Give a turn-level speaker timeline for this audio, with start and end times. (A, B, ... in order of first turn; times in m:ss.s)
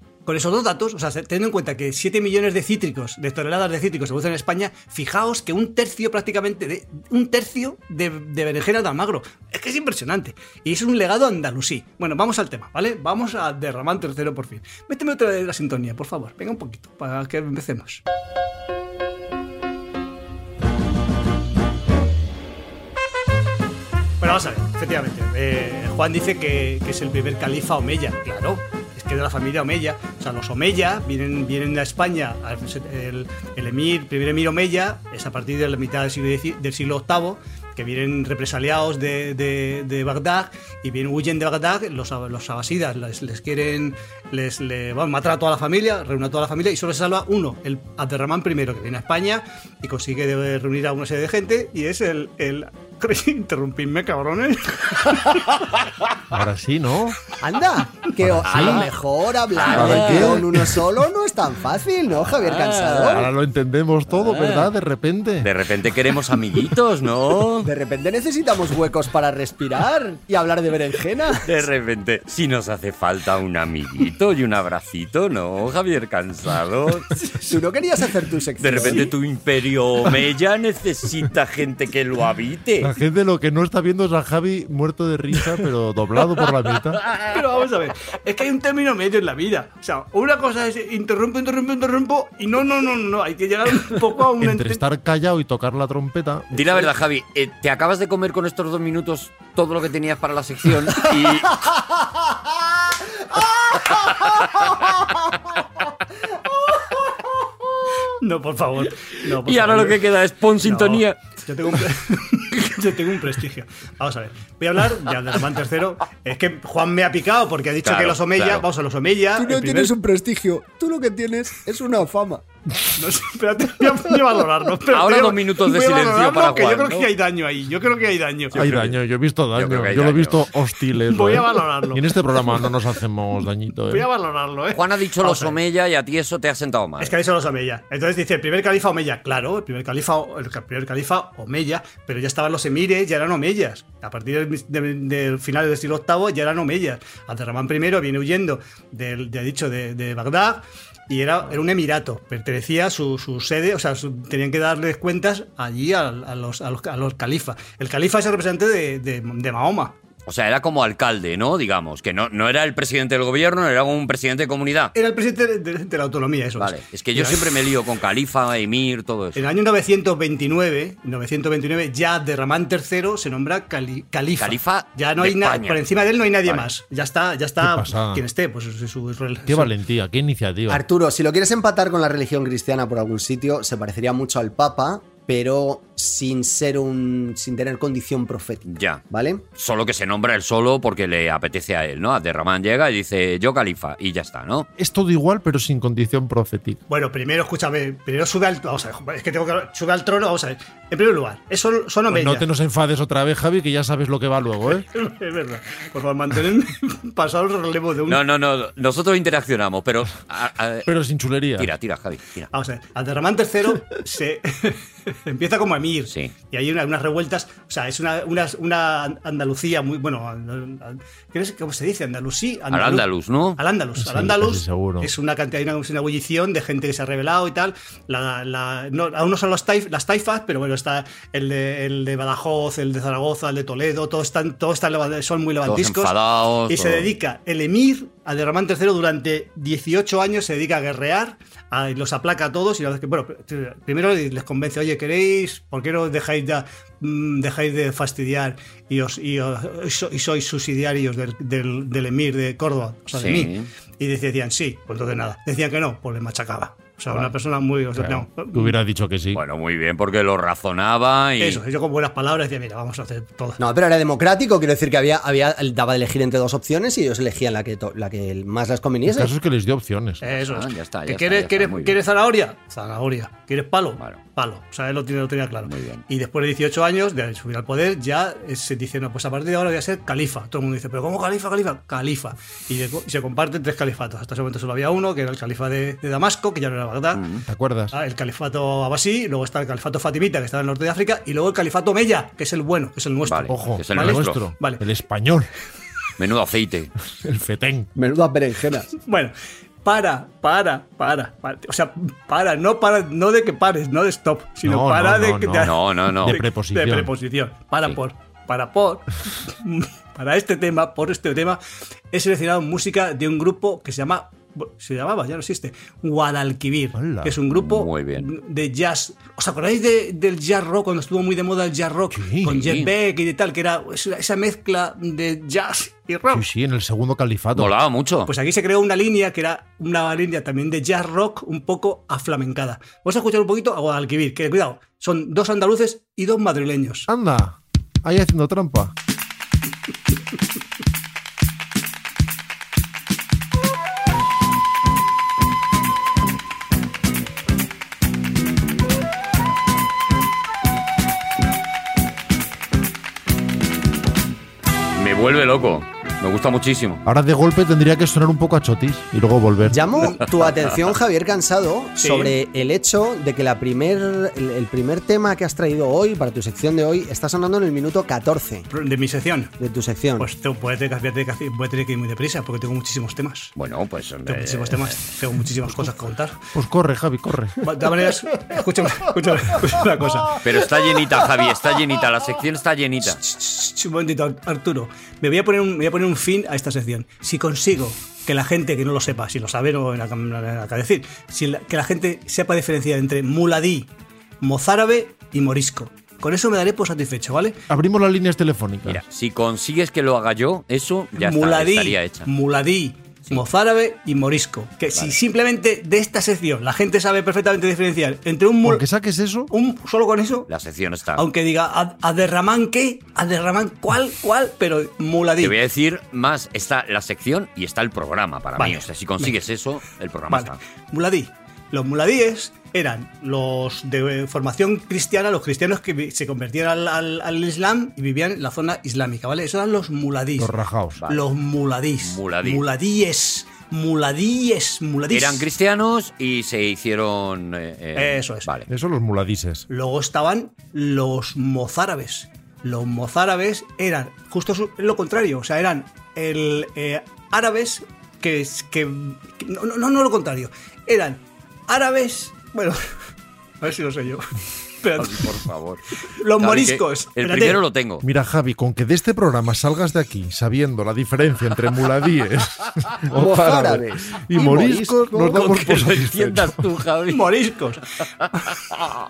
0:00.3-0:18.0 A
0:24.2-0:55.7 A
0:56.3-0:57.2 B
0:57.4-1:03.3 C
0:58.2-0:58.9 B
0:58.5-0:58.8 D
0:59.6-1:00.4 D
0:59.7-1:00.8 B
1:02.4-1:03.3 D
1:03.1-1:05.5 B
1:04.1-1:04.7 D
1:05.4-1:07.7 D
1:07.6-1:11.4 C
1:11.4-1:17.1 D
1:17.1-1:17.5 A
1:17.5-1:19.1 C
1:18.6-1:22.9 D
1:18.8-1:19.1 A
1:22.8-1:27.0 B
1:27.2-1:34.8 A
1:34.4-1:36.9 B
1:36.5-1:41.6 D
1:44.3-1:44.6 D
1:48.2-1:50.0 A
1:49.4-1:51.2 D
1:50.6-1:59.9 A
1:57.8-1:58.7 D
1:59.4-2:02.4 C
2:02.9-2:08.8 A
2:04.9-2:07.1 D
2:08.5-2:14.1 B
2:08.6-2:09.0 D
2:09.5-2:10.4 D
2:11.0-2:12.7 A
2:13.9-2:15.6 A
2:14.7-2:17.1 D
2:17.0-2:40.0 A
2:40.3-2:44.9 D
2:45.0-2:47.6 A
2:46.6-2:49.4 D
2:49.4-2:59.7 A
2:54.4-2:55.8 D
2:57.6-2:58.2 B
2:59.5-3:00.8 B
3:00.7-3:09.4 C
3:08.7-3:09.0 D
3:09.6-3:14.7 D
3:14.8-3:16.8 B
3:16.9-3:22.4 A
3:22.1-3:24.9 B
3:24.9-3:28.2 A
3:28.1-3:30.9 D
3:30.9-3:31.7 B
3:31.6-3:32.5 D
3:32.5-3:43.1 A
3:42.7-3:43.6 D
3:43.6-3:56.2 A
3:44.0-3:45.1 B
3:55.6-3:57.1 D
3:56.7-4:18.8 A
4:13.1-4:13.7 D
4:18.0-4:19.4 B
4:19.3-4:21.6 D
4:21.4-4:23.6 A
4:23.6-4:29.3 C
4:29.0-4:30.2 B
4:30.2-4:47.2 A
4:30.3-4:32.0 D
4:35.6-4:36.0 D
4:47.1-4:47.4 D
4:47.5-4:48.0 B
4:47.9-4:54.8 A
4:53.2-4:54.4 D
4:53.5-4:55.5 B
4:56.2-4:56.9 D
4:57.2-4:57.9 B
4:58.0-4:58.9 C
4:59.0-5:11.6 A
5:04.6-5:07.1 B
5:05.6-5:06.4 D
5:12.1-5:26.4 A
5:17.0-5:17.4 B
5:17.5-5:18.3 D
5:22.1-5:22.7 B
5:22.5-5:22.9 D
5:26.3-5:27.8 B
5:27.6-5:28.3 D
5:28.3-5:37.1 A
5:37.1-5:38.9 B
5:55.0-5:57.0 D
5:57.0-5:59.9 B
5:59.7-6:08.7 C
6:02.0-6:02.3 A
6:08.7-6:09.5 A
6:09.6-6:10.3 C
6:10.2-6:13.5 A
6:13.6-6:15.0 D
6:14.3-6:16.4 A
6:16.6-6:17.7 B
6:17.6-6:20.4 A
6:20.4-6:23.2 D
6:23.1-6:37.6 A
6:37.7-6:39.0 B
6:38.8-6:42.3 D
6:41.2-6:48.8 A
6:48.6-6:49.5 B
6:49.5-6:50.5 A
6:50.5-6:51.2 D
6:51.2-6:55.6 A
6:55.4-7:00.6 D
6:58.6-6:59.4 A
7:00.3-7:10.5 A
7:10.4-7:11.0 B
7:11.0-7:11.2 D
7:11.1-7:15.5 A
7:12.0-7:12.6 D
7:15.1-7:18.7 D
7:18.0-7:18.5 A
7:18.7-7:19.7 B
7:19.7-7:32.8 A
7:33.6-7:35.4 A
7:35.0-7:35.8 D
7:36.2-7:37.6 A
7:36.4-7:38.0 D
7:38.0-7:46.6 B
7:43.1-7:45.4 C
7:45.3-7:47.2 D
7:47.1-7:47.8 A